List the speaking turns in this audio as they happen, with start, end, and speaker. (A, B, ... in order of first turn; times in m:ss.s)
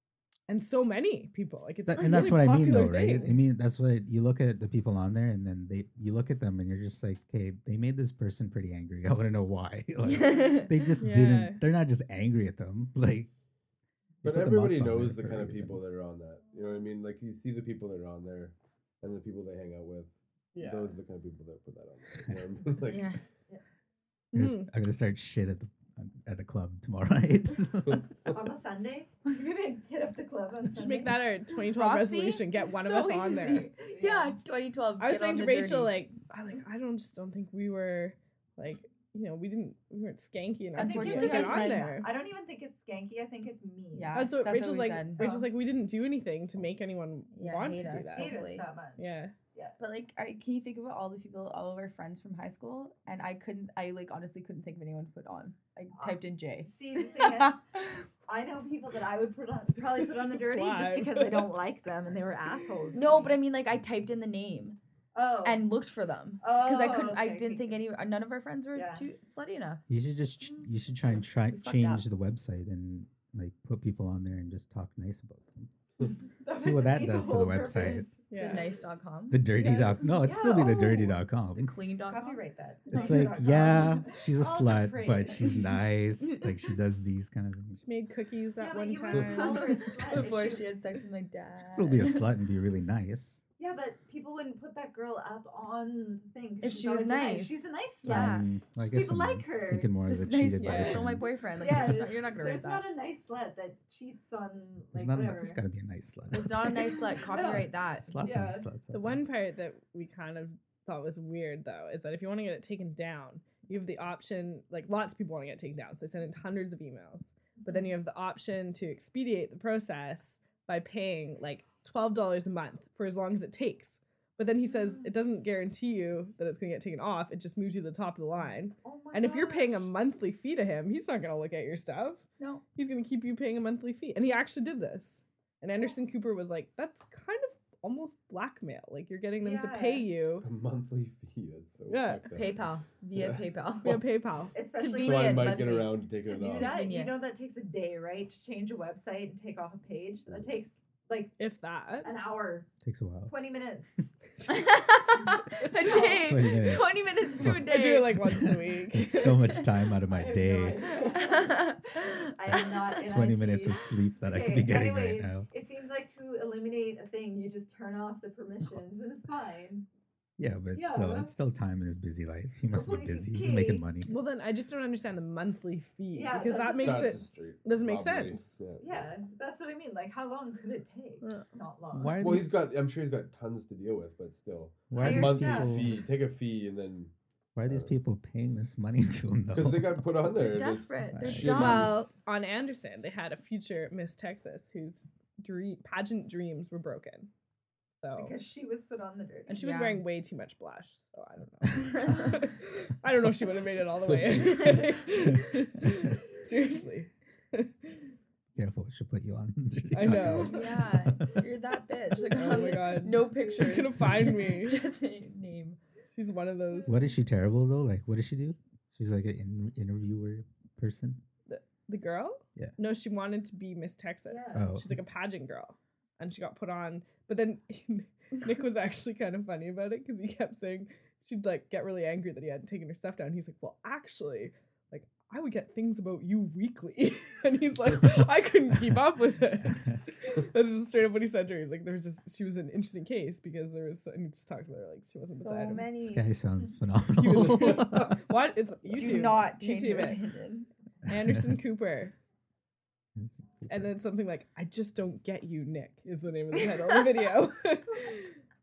0:00.5-0:03.4 A
0:01.9-0:13.3 B
0:10.3-0:10.7 C
0:11.0-0:11.6 A
0:14.2-0:15.8 B
0:14.2-0:23.1 D
0:20.6-0:20.9 A
0:22.8-0:23.2 C
0:24.3-0:24.7 A
0:24.3-0:28.1 B
0:28.2-0:31.2 E
0:30.7-0:33.7 A
0:31.7-0:36.0 C
0:33.8-0:34.4 E
0:35.0-0:42.1 A
0:40.8-0:42.0 C
0:40.8-0:44.3 E
0:43.9-0:45.4 C
0:44.1-0:48.4 A
0:45.2-0:45.6 E
0:47.3-0:48.6 C
0:48.1-0:49.8 E
0:49.0-0:49.3 A
0:49.8-0:57.5 C
0:56.0-0:57.8 E
0:58.3-1:03.4 E
0:59.8-1:01.6 A
1:02.9-1:04.8 C
1:05.1-1:05.7 E
1:05.4-1:09.8 C
1:06.4-1:07.8 E
1:08.7-1:09.1 E
1:09.9-1:15.7 B
1:11.5-1:12.0 C
1:16.4-1:18.7 E
1:16.5-1:18.1 B
1:18.3-1:18.7 A
1:18.4-1:19.6 C
1:19.3-1:21.8 B
1:19.6-1:20.8 E
1:20.3-1:23.7 C
1:22.1-1:25.6 E
1:22.9-1:27.8 B
1:27.8-1:30.0 A
1:28.6-1:30.7 E
1:29.2-1:32.3 C
1:31.7-1:33.4 B
1:33.6-1:39.9 E
1:36.6-1:38.5 C
1:38.0-1:41.3 B
1:40.1-1:42.8 C
1:40.6-1:41.0 A
1:41.5-1:45.6 E
1:44.9-1:46.9 B
1:46.3-1:48.1 C
1:47.2-1:48.7 E
1:48.1-1:49.3 B
1:48.9-2:12.2 A
2:04.7-2:05.1 E
2:08.8-2:09.9 E
2:12.8-2:20.5 A
2:19.4-2:20.1 E
2:20.4-2:23.4 D
2:21.9-2:22.2 A
2:22.3-2:24.0 C
2:23.8-2:24.6 A
2:24.5-2:31.4 E
2:24.7-2:27.2 C
2:24.9-2:26.7 D
2:31.4-2:32.1 A
2:32.0-2:32.7 E
2:32.8-2:33.4 B
2:33.3-2:34.1 E
2:34.5-2:38.3 C
2:35.8-2:36.4 E
2:36.1-2:40.9 B
2:37.5-2:39.4 A
2:40.1-2:49.9 E
2:41.1-2:42.3 C
2:43.0-2:45.5 B
2:50.4-2:54.2 B
2:50.7-2:51.3 E
2:52.7-2:53.8 E
2:54.0-2:58.6 A
2:56.1-2:57.2 E
2:56.6-2:59.0 D
2:58.8-3:02.2 E
3:01.2-3:01.5 A
3:01.9-3:02.6 B
3:02.2-3:07.1 D
3:04.9-3:06.0 B
3:05.0-3:05.9 E
3:07.6-3:10.2 B
3:07.7-3:07.9 D
3:09.5-3:12.0 D
3:10.3-3:12.0 C
3:11.1-3:12.1 B
3:11.6-3:17.3 A
3:18.0-3:18.4 A
3:18.2-3:19.7 E
3:19.5-3:27.9 A
3:19.6-3:20.0 C
3:22.1-3:22.3 C
3:24.1-3:24.7 D
3:28.6-3:31.5 B
3:29.9-3:30.7 A
3:30.3-3:35.8 C
3:32.2-3:34.8 A
3:33.6-3:34.6 B
3:36.2-3:37.0 A
3:36.9-3:41.2 B
3:41.5-4:06.0 A
3:44.3-3:44.6 E
3:44.5-3:44.9 B
4:05.4-4:06.3 C
4:06.0-4:08.2 B
4:07.2-4:10.2 A
4:08.9-4:10.7 C
4:11.1-4:11.6 B
4:11.1-4:12.2 A
4:13.2-4:14.0 B
4:13.7-4:18.4 A